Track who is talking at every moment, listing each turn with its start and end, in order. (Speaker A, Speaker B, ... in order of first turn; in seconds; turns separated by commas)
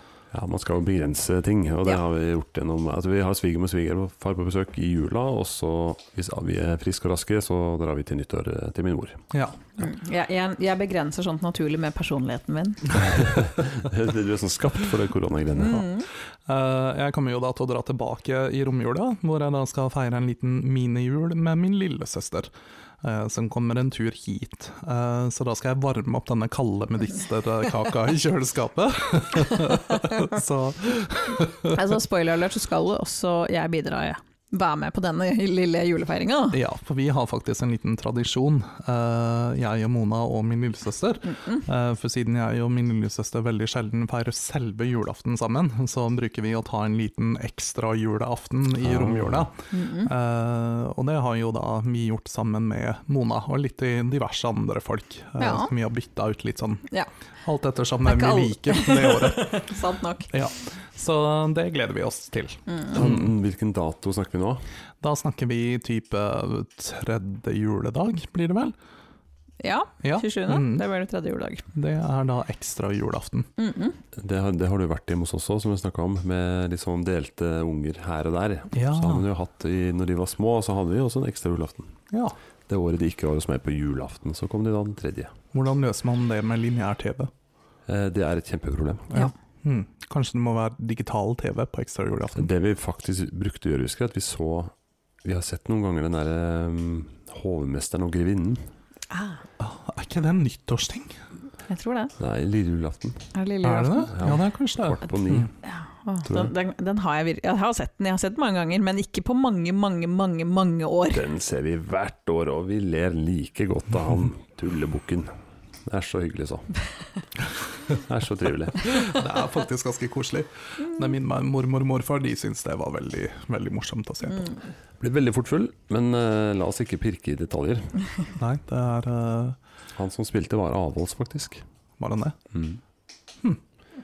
Speaker A: 0.3-9.2, Speaker B: 9.3-9.6, Speaker C: 9.8-13.0, Speaker A: 13.0-15.9, Speaker C: 15.6-16.1, Speaker B: 16.4-22.5, Speaker B: 23.0-31.8, Speaker C: 31.7-36.6, Speaker B: 36.5-56.9, Speaker C: 41.3-41.6, Speaker A: 48.8-49.5, Speaker C: 49.7-50.1, Speaker C: 55.4-55.7, Speaker B: 57.4-59.6, Speaker C: 58.0-60.3, Speaker B: 60.3-63.3, Speaker C: 62.7-63.0, Speaker A: 62.9-64.6, Speaker B: 65.0-68.7, Speaker C: 69.6-71.7, Speaker B: 70.0-70.8, Speaker B: 71.7-73.5, Speaker C: 73.6-74.0, Speaker A: 74.2-81.9, Speaker B: 78.7-79.2, Speaker B: 82.1-82.3, Speaker A: 82.7-85.3, Speaker B: 85.5-87.3, Speaker A: 87.9-89.1, Speaker B: 89.1-92.5, Speaker A: 92.4-94.7, Speaker A: 95.2-98.6, Speaker C: 99.1-99.4, Speaker B: 99.6-101.2, Speaker C: 101.7-102.1, Speaker A: 102.2-103.3, Speaker C: 103.3-104.1, Speaker B: 103.6-105.5, Speaker A: 104.1-105.5, Speaker C: 105.6-111.2, Speaker A: 106.2-106.5, Speaker A: 111.1-115.3, Speaker A: 115.8-116.7, Speaker A: 117.9-118.9, Speaker B: 118.8-124.6, Speaker A: 125.0-128.0, Speaker B: 128.4-129.6, Speaker A: 130.0-131.6, Speaker B: 132.0-132.4, Speaker A: 132.5-132.8